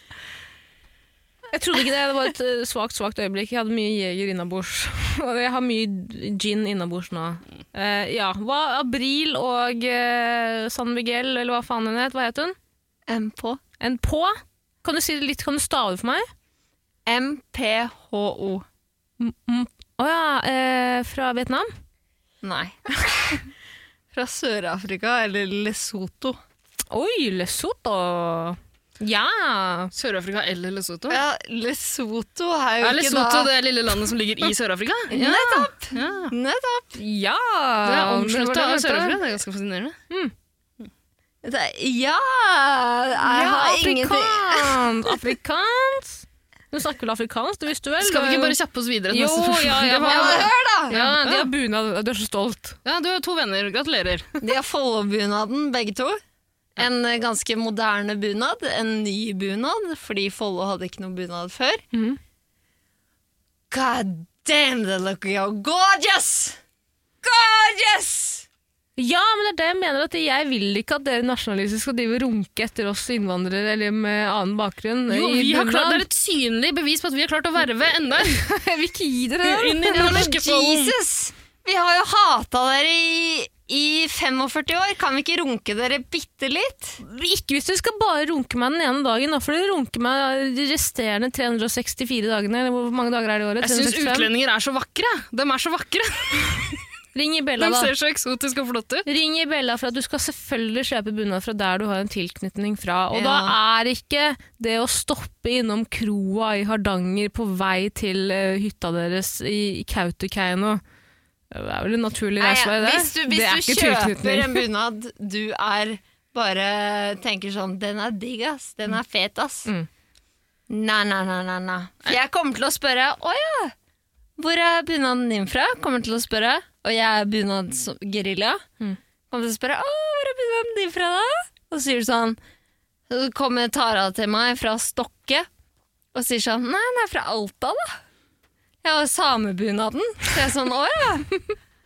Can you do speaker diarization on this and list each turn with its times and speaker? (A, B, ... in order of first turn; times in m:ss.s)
0:01.5-0:12.6 A
0:13.1-0:13.6 B
0:13.8-0:16.3 A
0:17.0-0:18.6 B
0:19.2-0:21.7 A
0:22.4-0:23.5 B
0:24.1-0:26.4 B
0:26.9-0:29.9 A
0:29.9-0:31.2 C
0:31.1-0:33.5 B
0:32.8-0:36.3 C
0:35.1-0:37.0 B
0:37.0-0:39.2 A
0:37.8-0:40.0 C
0:41.4-0:45.1 B
0:43.2-0:48.6 A
0:48.0-0:51.5 C
0:49.1-0:52.8 A
0:50.0-0:51.0 B
0:52.8-0:54.3 C
0:54.4-0:56.2 B
0:56.8-1:01.8 B
1:01.9-1:02.2 A
1:03.7-1:06.6 B
1:07.2-1:08.4 B
1:09.0-1:16.0 A
1:15.1-1:18.4 C
1:18.3-1:20.2 A
1:19.4-1:20.9 C
1:19.8-1:27.0 B
1:27.0-1:34.3 A
1:33.6-1:36.8 C
1:37.1-1:37.9 A
1:37.6-1:39.0 C
1:39.0-1:50.8 A
1:43.1-1:43.6 B
1:51.5-1:54.6 A
1:52.4-1:59.7 B
2:00.7-2:03.7 B
2:04.4-2:08.6 B
2:09.3-2:12.4 B
2:13.1-2:15.5 B
2:16.1-2:17.9 B
2:18.8-2:21.4 B